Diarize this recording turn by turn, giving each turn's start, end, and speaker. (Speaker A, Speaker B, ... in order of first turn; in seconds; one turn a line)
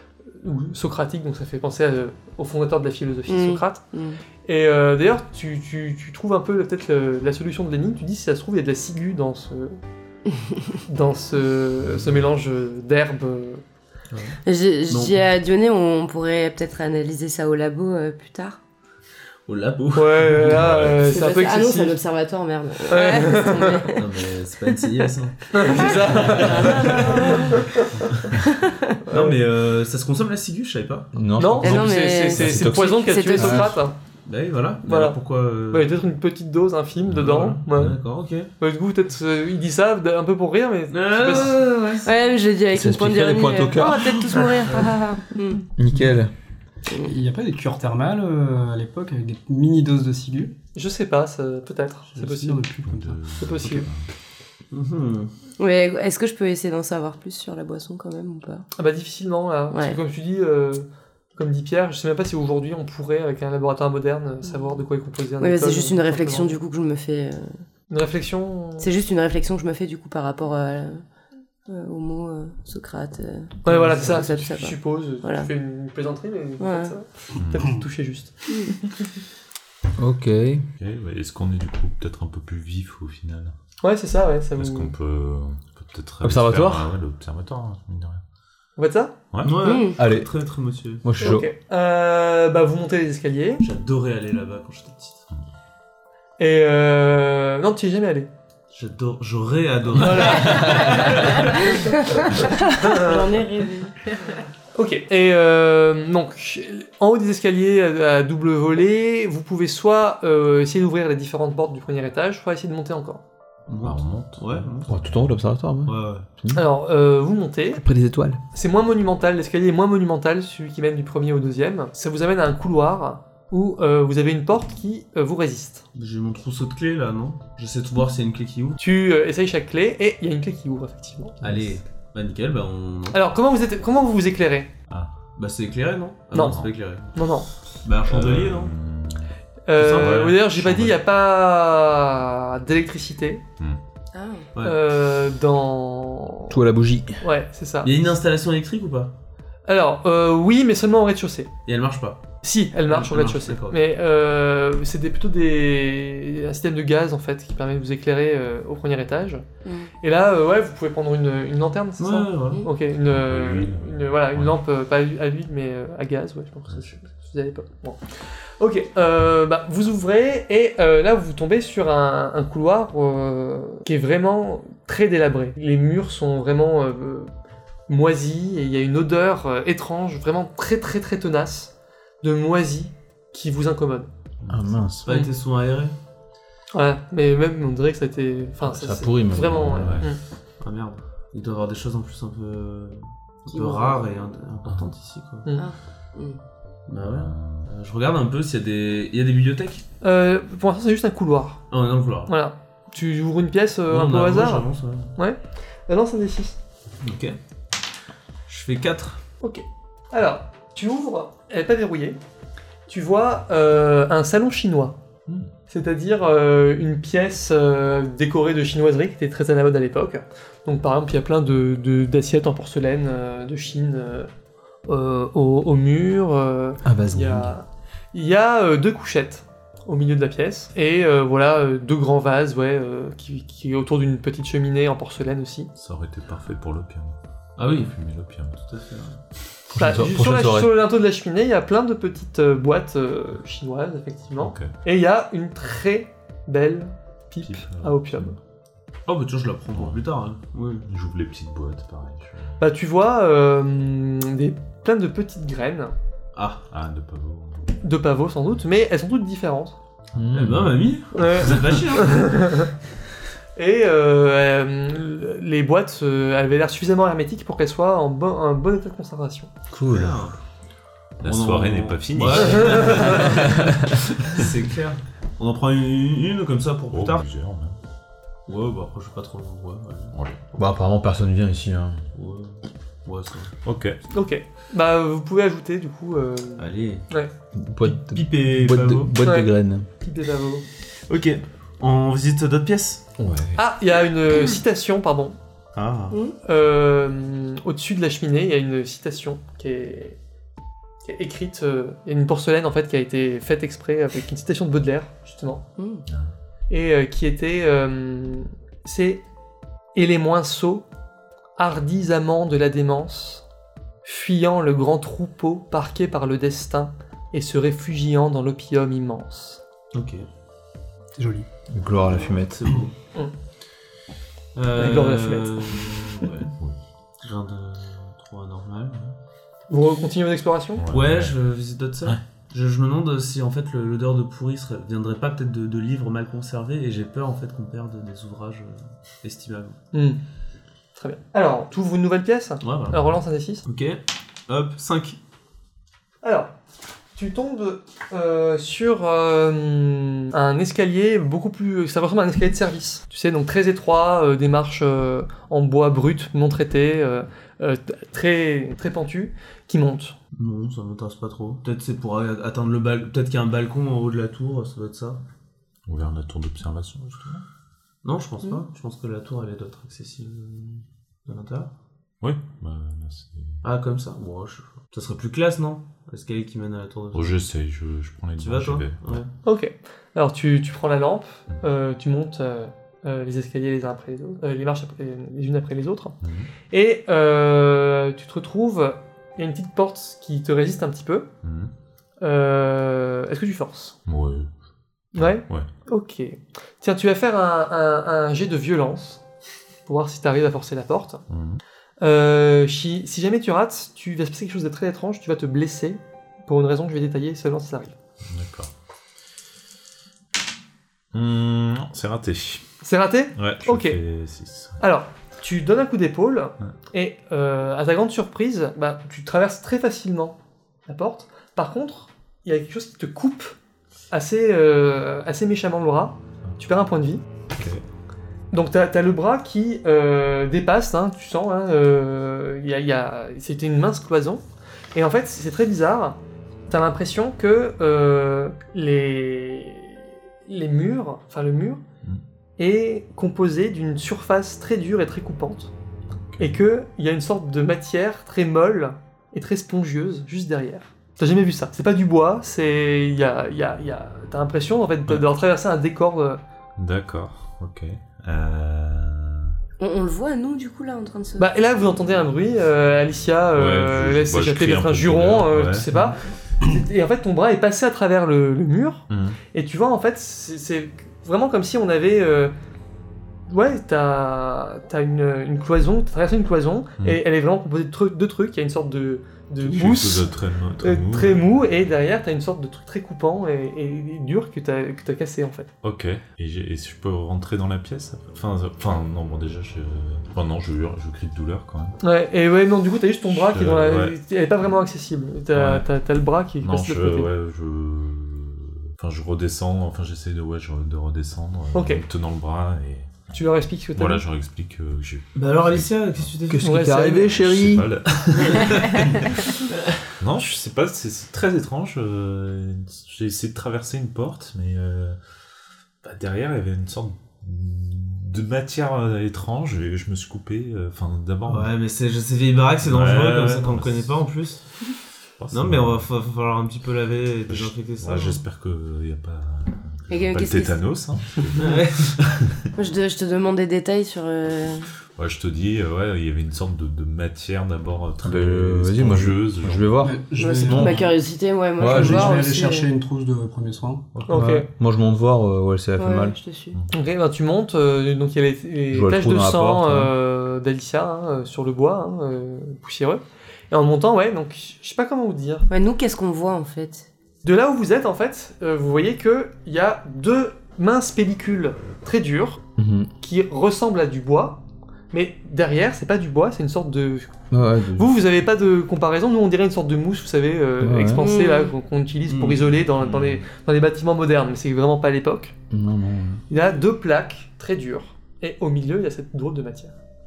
Speaker A: 0.3-3.8
Speaker B: 3.3-4.2
Speaker A: 4.4-9.8
Speaker A: 10.9-13.6
Speaker C: 14.1-15.2
Speaker B: 14.4-18.6
Speaker C: 19.5-20.9
Speaker A: 19.9-22.0
Speaker D: 20.4-21.0
Speaker B: 21.0-24.1
Speaker A: 22.9-23.9
Speaker C: 23.9-27.4
Speaker A: 25.5-27.9
Speaker B: 25.6-27.7
Speaker B: 28.4-28.9
Speaker A: 29.0-29.4
Speaker C: 29.1-31.1
Speaker E: 31.1-33.8
Speaker A: 31.4-34.0
Speaker B: 31.6-33.8
Speaker C: 34.2-36.0
Speaker A: 34.8-35.2
Speaker A: 35.7-38.0
Speaker D: 37.1-38.0
Speaker C: 37.2-38.5
Speaker A: 38.6-41.7
Speaker C: 40.9-42.1
Speaker B: 42.0-45.7
Speaker E: 42.7-44.5
Speaker E: 45.8-46.3
Speaker F: 45.8-46.1
Speaker B: 46.9-47.1
Speaker F: 47.0-50.5
Speaker A: 50.7-52.7
Speaker F: 52.1-53.9
Speaker D: 52.9-54.1
Speaker A: 53.4-53.9
Speaker C: 54.7-55.3
Speaker B: 55.6-58.7
Speaker A: 58.8-66.5
Speaker B: 59.7-60.0
Speaker B: 65.4-67.6
Speaker A: 67.9-68.9
Speaker B: 68.8-71.0
Speaker B: 71.7-75.5
Speaker A: 73.6-78.6
Speaker B: 76.6-76.9
Speaker D: 77.4-77.7
Speaker E: 80.0-80.6
Speaker D: 80.8-83.5
Speaker A: 83.8-84.9
Speaker D: 84.6-88.2
Speaker E: 86.2-86.9
Speaker A: 88.8-89.1
Speaker D: 89.3-89.6
Speaker C: 89.4-91.1
Speaker B: 89.6-90.0
Speaker E: 90.0-90.3
Speaker E: 91.0-91.5
Speaker A: 91.2-93.6
Speaker C: 93.6-95.2
Speaker A: 96.4-98.3
Speaker C: 98.7-101.8
Speaker A: 100.0-101.9
Speaker B: 102.5-104.1
Speaker A: 102.6-103.3
Speaker A: 104.7-113.2
Speaker C: 113.7-114.9
Speaker D: 113.8-115.4
Speaker E: 114.9-116.7
Speaker C: 115.8-116.2
Speaker A: 116.5-117.8
Speaker E: 117.8-118.4
Speaker A: 118.5-125.8
Speaker C: 125.9-128.8
Speaker A: 128.8-131.7
Speaker C: 131.4-133.2
Speaker A: 133.1-134.7
Speaker C: 135.4-137.3
Speaker A: 136.3-137.5
Speaker D: 136.4-136.7
Speaker C: 137.8-138.7
Speaker D: 138.1-139.3
Speaker A: 139.7-143.4
Speaker C: 139.8-140.4
Speaker D: 139.9-141.0
Speaker B: 144.1-144.5
Speaker C: 144.5-144.8
Speaker A: 144.6-146.6
Speaker E: 146.5-147.2
Speaker A: 147.2-147.9
Speaker C: 147.8-149.1
Speaker A: 149.7-151.5
Speaker C: 151.7-152.3
Speaker A: 152.4-159.4
Speaker C: 152.9-153.8
Speaker B: 159.6-159.9
Speaker A: 160.0-168.0
Speaker C: 162.0-162.7
Speaker D: 162.9-164.6
Speaker D: 166.7-167.0
Speaker A: 168.6-177.3
Speaker A: 177.9-184.1
Speaker D: 184.4-184.8
Speaker E: 184.5-185.1
Speaker C: 185.1-185.9
Speaker A: 186.7-190.2
Speaker E: 188.6-190.0
Speaker D: 189.4-190.1
Speaker C: 190.6-195.5
Speaker B: 193.5-194.1
Speaker B: 195.5-196.4
Speaker C: 196.9-199.8
Speaker D: 196.9-197.7
Speaker A: 200.0-201.6
Speaker C: 201.7-202.3
Speaker A: 202.3-206.6
Speaker C: 203.9-205.1
Speaker C: 207.0-207.4
Speaker C: 208.5-209.2
Speaker A: 209.4-212.2
Speaker A: 212.9-215.0
Speaker A: 215.7-224.3
Speaker A: 224.9-235.7
Speaker E: 226.8-227.6
Speaker D: 235.7-238.6
Speaker C: 237.6-238.0
Speaker C: 238.6-239.2
Speaker E: 239.7-240.8
Speaker A: 239.7-248.3
Speaker D: 244.4-244.7
Speaker D: 247.4-248.3
Speaker C: 249.1-250.9
Speaker D: 249.7-250.0
Speaker D: 250.9-252.6
Speaker A: 252.6-255.9
Speaker C: 256.3-256.6
Speaker D: 256.7-257.8
Speaker A: 257.8-259.8
Speaker D: 260.1-260.8
Speaker E: 260.1-260.7
Speaker C: 260.3-262.4
Speaker A: 261.1-262.7
Speaker A: 263.6-269.5
Speaker E: 269.7-270.2
Speaker C: 269.9-270.3
Speaker D: 271.2-273.7
Speaker C: 271.2-277.2
Speaker A: 272.7-273.3
Speaker D: 276.9-277.8
Speaker C: 278.5-280.1
Speaker D: 280.1-280.4
Speaker E: 280.5-282.0
Speaker C: 282.1-283.5
Speaker D: 283.6-284.0
Speaker A: 284.1-287.3
Speaker C: 286.6-287.1
Speaker E: 287.5-289.9
Speaker C: 287.8-289.2
Speaker A: 289.2-290.6
Speaker C: 291.1-293.0
Speaker E: 293.2-293.5
Speaker A: 293.6-295.4
Speaker C: 295.7-296.2
Speaker A: 296.4-300.2
Speaker A: 301.0-305.6
Speaker B: 305.8-306.0
Speaker D: 306.1-306.3
Speaker A: 306.7-309.2
Speaker A: 309.9-310.8
Speaker A: 311.6-313.4
Speaker A: 314.0-319.6
Speaker C: 319.9-320.2
Speaker F: 321.2-321.5
Speaker E: 321.7-322.7
Speaker C: 322.3-322.9
Speaker C: 324.5-326.3
Speaker A: 324.8-325.6
Speaker D: 326.2-326.8
Speaker C: 327.2-329.1
Speaker A: 329.7-330.8
Speaker D: 330.8-331.4
Speaker C: 330.9-339.8
Speaker A: 339.9-340.2
Speaker A: 341.0-343.6
Speaker C: 342.6-343.0
Speaker C: 343.6-345.2
Speaker A: 346.2-346.5
Speaker A: 347.1-360.1
Speaker C: 360.4-365.2
Speaker D: 365.9-367.4
Speaker C: 368.0-371.7
Speaker D: 372.2-373.6
Speaker C: 373.6-377.5
Speaker D: 377.1-379.2
Speaker C: 378.4-379.3
Speaker A: 379.4-386.2
Speaker D: 386.2-386.5
Speaker A: 386.7-391.3
Speaker D: 391.4-391.7
Speaker A: 392.2-394.0
Speaker D: 394.1-394.5
Speaker D: 395.1-395.7
Speaker A: 395.1-399.2
Speaker A: 399.9-401.2
Speaker D: 401.3-401.6
Speaker A: 402.0-407.9
Speaker D: 408.2-408.7
Speaker D: 411.1-412.6
Speaker A: 412.8-414.0
Speaker D: 413.4-414.8
Speaker A: 414.8-423.6
Speaker A: 424.1-427.2
Speaker D: 427.5-427.8
Speaker A: 428.5-434.4
Speaker A: 434.9-441.8
Speaker A: 442.6-445.7
Speaker D: 446.1-446.6
Speaker A: 446.4-456.4
Speaker D: 456.8-459.5
Speaker B: 459.8-461.5
Speaker A: 461.4-472.5
Speaker D: 463.5-465.9
Speaker D: 469.1-469.4
Speaker A: 473.5-485.7
Speaker D: 479.6-481.8
Speaker D: 485.8-492.0
Speaker A: 492.0-497.3
Speaker D: 493.3-494.2
Speaker D: 495.5-495.9
Speaker D: 496.6-503.3
Speaker A: 501.7-502.0
Speaker A: 503.3-504.2
Speaker D: 503.9-506.3
Speaker C: 505.3-506.8
Speaker E: 506.5-507.9
Speaker A: 506.6-507.3
Speaker D: 507.1-509.5
Speaker C: 508.4-508.8
Speaker D: 510.2-515.2
Speaker D: 516.0-521.7
Speaker C: 521.4-524.7
Speaker D: 522.8-524.1
Speaker D: 525.4-526.1
Speaker C: 525.5-528.4
Speaker D: 527.5-532.7
Speaker B: 530.1-530.8
Speaker C: 531.5-532.2
Speaker B: 532.8-534.9
Speaker D: 535.1-540.0
Speaker E: 538.2-541.0
Speaker F: 540.0-541.1
Speaker B: 540.3-542.9
Speaker E: 541.8-542.4
Speaker F: 541.8-544.1
Speaker D: 544.1-544.4
Speaker A: 544.3-544.7
Speaker E: 544.3-546.4
Speaker B: 546.0-546.8
Speaker D: 546.7-547.0
Speaker A: 546.9-555.7
Speaker E: 548.9-550.1
Speaker B: 555.7-557.1
Speaker A: 557.4-562.6
Speaker E: 562.8-563.1
Speaker A: 563.2-564.6
Speaker A: 565.1-567.3
Speaker E: 567.5-568.1
Speaker A: 567.9-575.5
Speaker E: 570.8-571.2
Speaker B: 571.2-571.7
Speaker C: 572.2-572.7
Speaker D: 572.9-573.5
Speaker E: 575.7-576.4
Speaker A: 576.5-579.9